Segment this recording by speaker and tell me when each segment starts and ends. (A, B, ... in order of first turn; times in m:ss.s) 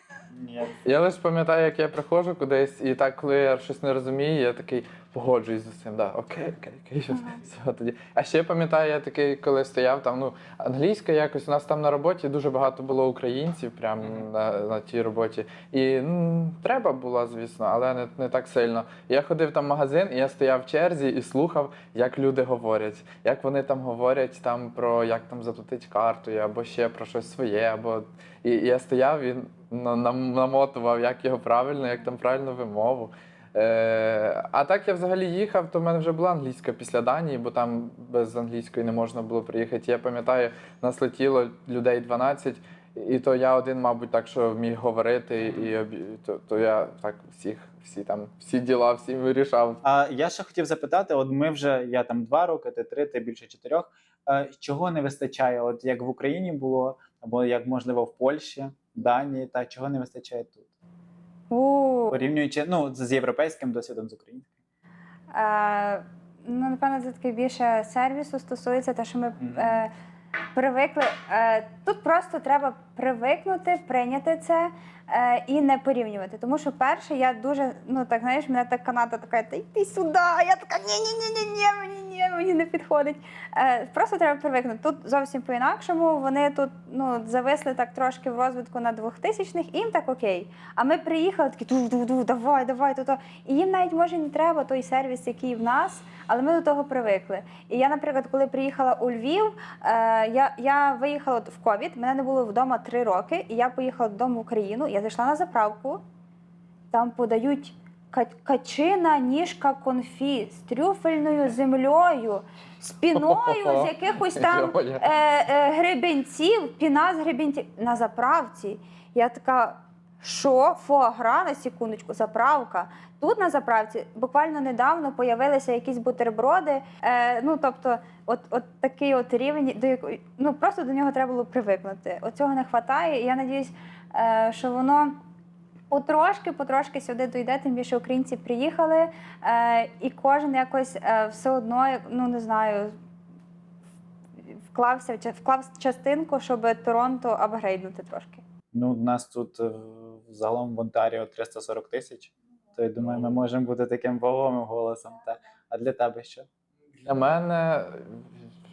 0:00.3-0:00.8 A
0:00.8-0:49.8 B
0:07.1-0:07.4 C
0:45.4-0:45.7 A
0:49.8-1:00.7 A
1:01.5-1:02.2 C
1:02.1-1:04.5 A
1:05.3-1:09.9 C
1:09.4-1:09.8 A
1:10.5-1:46.0 C
1:46.9-2:15.2 C
1:53.1-1:55.0 B
2:15.9-2:22.9 C
2:24.4-2:28.4 C
2:28.7-2:36.5 A
2:37.0-2:38.3 B